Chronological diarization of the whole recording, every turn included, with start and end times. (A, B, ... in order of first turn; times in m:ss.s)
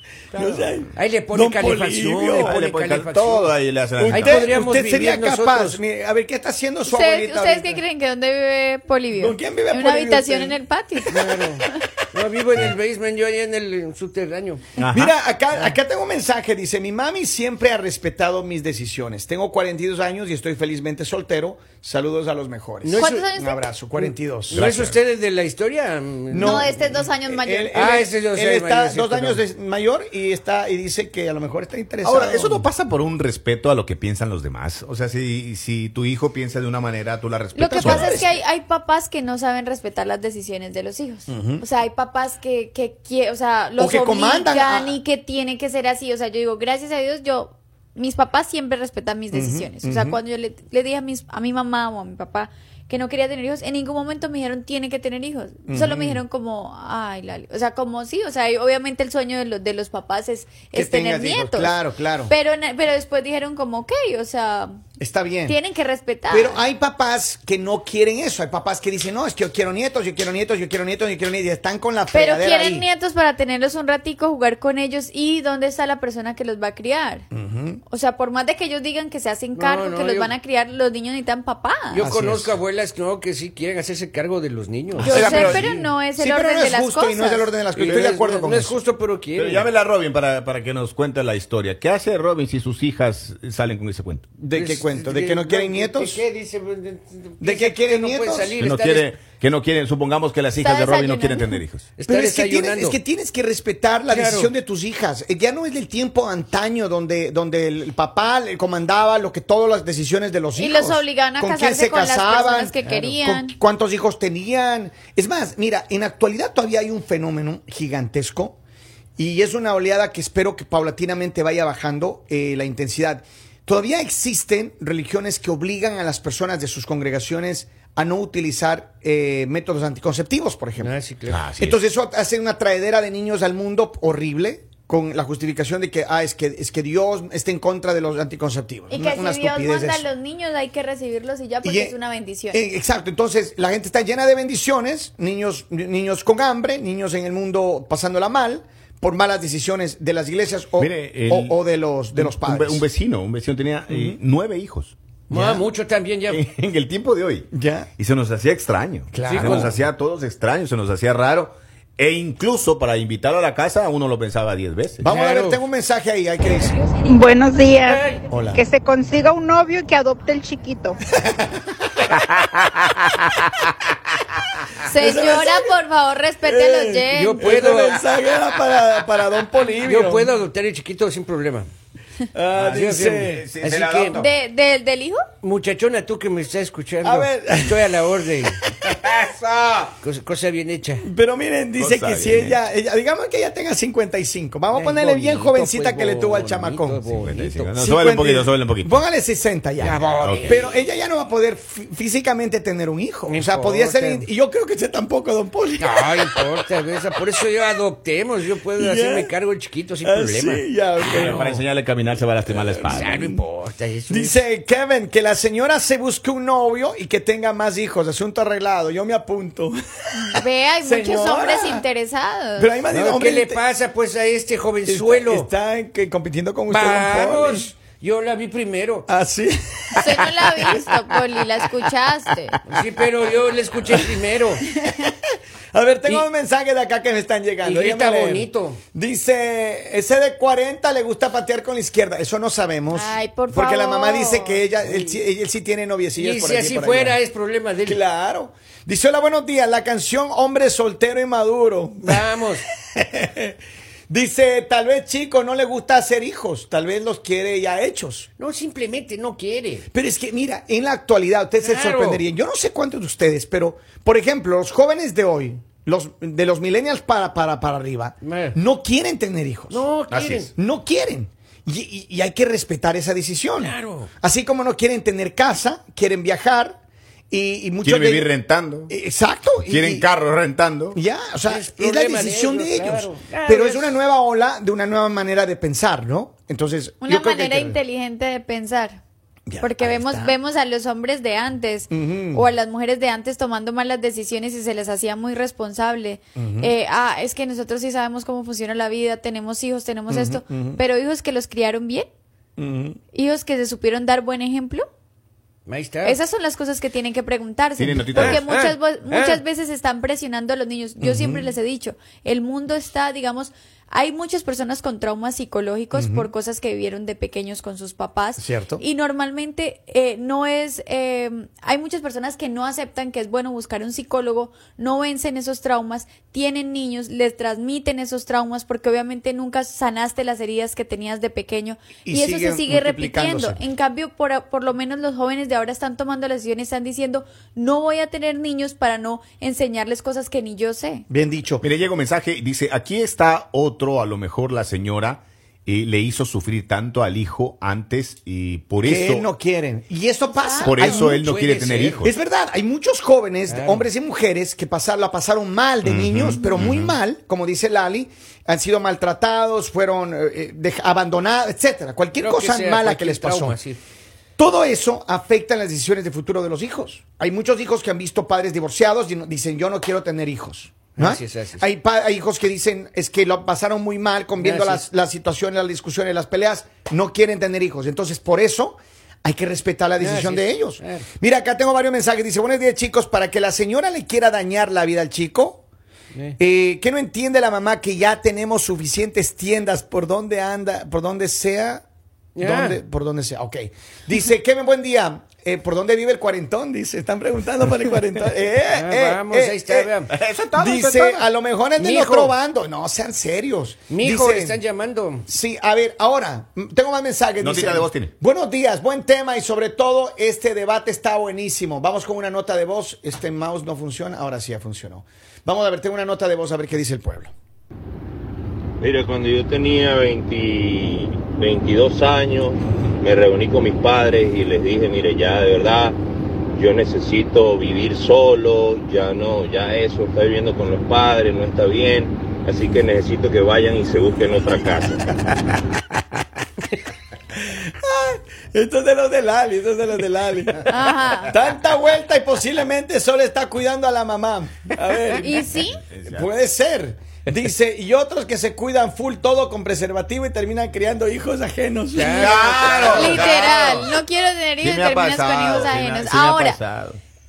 0:00.3-0:02.6 A
0:00.3-0:00.8 B
0:01.0-0:05.8 C
0:02.4-0:04.5 B
0:04.0-0:07.8 A
0:06.9-0:11.7 D
0:09.1-0:11.3 A
0:11.1-0:14.7 C
0:14.8-0:15.1 B
0:14.9-0:24.7 A
0:22.8-0:23.3 C
0:23.0-0:23.7 D
0:24.0-0:26.7 C
0:24.5-0:25.0 B
0:26.3-0:32.7 A
0:26.4-0:27.9 D
0:27.7-0:29.4 C
0:32.0-0:38.3 B
0:37.6-1:04.8 D
0:37.8-0:38.3 A
0:41.3-0:41.6 A
0:43.8-0:45.0 A
0:49.3-0:50.2 A
0:55.7-0:56.2 A
1:00.7-1:02.3 A
1:05.0-1:05.6 A
1:05.5-1:06.6 D
1:06.3-1:12.9 A
1:12.1-1:17.2 D
1:17.3-1:17.8 A
1:17.9-1:22.1 D
1:19.5-1:20.4 C
1:21.9-1:25.5 C
1:22.0-1:22.5 A
1:25.0-1:25.9 B
1:25.0-1:28.8 A
1:25.0-1:28.4 D
1:27.8-1:29.7 C
1:27.9-1:28.1 B
1:29.4-1:34.3 B
1:34.4-1:36.2 A
1:34.5-1:39.1 C
1:37.4-1:38.6 A
1:38.6-1:41.9 B
1:40.6-1:41.6 D
1:42.0-1:43.0 C
1:42.1-1:58.6 A
1:44.1-1:44.5 C
1:50.6-1:53.6 D
1:52.8-1:53.2 C
1:59.2-2:10.9 A
2:10.8-2:11.5 C
2:11.3-2:11.8 B
2:11.6-2:20.1 A
2:18.9-2:22.6 D
2:21.6-2:22.0 A
2:22.5-2:32.9 A
2:30.8-2:31.6 B
2:32.2-2:34.9 B
2:33.9-2:34.2 A
2:35.3-2:36.4 C
2:35.3-2:35.6 A
2:36.3-2:45.0 B
2:37.5-2:37.9 A
2:39.1-2:39.7 A
2:39.2-2:39.8 C
2:45.0-2:46.9 A
2:45.0-2:45.6 C
2:46.8-2:47.1 D
2:47.1-2:48.0 E
2:47.8-2:48.2 C
2:48.3-2:48.6 A
2:48.6-2:50.9 E
2:51.2-2:51.7 A
2:52.1-2:53.5 B
2:54.8-2:57.5 D
2:55.0-2:55.7 A
2:56.4-3:00.3 A
2:57.1-2:58.0 C
2:59.8-3:01.7 C
3:02.3-3:03.4 A
3:02.6-3:04.3 B
3:02.7-3:04.2 C
3:04.2-3:05.2 D
3:05.4-3:08.6 C
3:07.0-3:08.0 A
3:08.8-3:09.9 B
3:10.0-3:11.0 C
3:11.0-3:17.0 A
3:11.8-3:12.6 B
3:14.7-3:17.8 C
3:17.1-3:19.0 B
3:17.8-3:26.5 A
3:19.8-3:20.8 C
3:20.2-3:20.6 B
3:23.3-3:24.3 C
3:25.8-3:31.6 C
3:28.8-3:29.4 A
3:30.0-3:31.6 A
3:31.1-3:33.1 B
3:32.8-3:33.4 A
3:32.8-3:34.4 C
3:34.1-3:41.8 A
3:40.2-3:42.7 D
3:42.6-3:43.6 A
3:42.9-3:45.5 C
3:44.9-3:47.7 A
3:46.7-3:49.1 C
3:49.1-3:52.6 A
3:49.9-3:52.6 D
3:52.7-3:54.6 C
3:53.8-3:54.2 A
3:54.9-3:55.1 A
3:55.7-4:07.2 A
3:57.6-3:58.8 C
4:02.9-4:04.6 D
4:04.8-4:05.2 C
4:06.2-4:08.0 C
4:07.8-4:13.6 A
4:12.0-4:12.7 C
4:14.1-4:18.3 A
4:18.4-4:19.9 C
4:19.9-4:29.9 A
4:21.6-4:22.2 C
4:28.2-4:28.6 C
4:29.7-4:30.5 C
4:30.1-4:30.5 B
4:30.5-4:38.3 A
4:33.6-4:34.1 C
4:37.8-4:38.9 B
4:38.9-4:40.1 A
4:39.6-4:41.0 B
4:40.9-4:47.8 A
4:41.4-4:44.0 C
4:47.0-4:49.0 D
4:49.5-4:50.4 A
4:49.6-5:02.1 D
4:51.9-4:52.5 A
4:56.4-4:56.7 A
5:00.1-5:00.8 A
5:02.6-5:03.0 A
5:03.1-5:04.9 D
5:05.7-5:06.2 C
5:06.0-5:41.1 D
5:07.8-5:08.4 B
5:08.1-5:09.4 C
5:11.0-5:11.5 A
5:15.9-5:16.3 A
5:18.4-5:18.8 A
5:32.1-5:33.6 A
5:41.1-5:41.6 A
5:41.6-5:49.3 B
5:48.8-5:51.2 A
5:50.3-5:51.1 D
5:50.6-5:52.1 B
5:51.1-5:52.0 C
5:52.0-6:03.6 A
5:53.5-5:53.9 C
5:55.8-5:57.0 B
6:02.1-6:03.8 C
6:04.4-6:25.6 A
6:11.0-6:11.6 C
6:14.4-6:14.8 C
6:20.0-6:21.1 C
6:26.4-6:31.8 A
6:32.4-6:32.8 C
6:32.4-6:39.9 A
6:38.7-6:40.1 C
6:40.1-6:41.2 B
6:40.5-6:44.6 A
6:41.8-6:42.4 C
6:43.9-6:45.3 C
6:45.3-6:57.3 A
6:47.4-6:48.1 B
6:58.8-7:06.0 F
7:06.5-7:15.1 F
7:17.3-7:20.7 A
7:20.7-7:21.4 D
7:21.3-7:25.5 A
7:25.2-7:25.8 D
7:25.5-7:26.3 B
7:26.1-7:33.2 A
7:31.9-7:33.2 C
7:32.1-7:33.9 B
7:32.9-7:36.6 D
7:34.6-7:37.0 B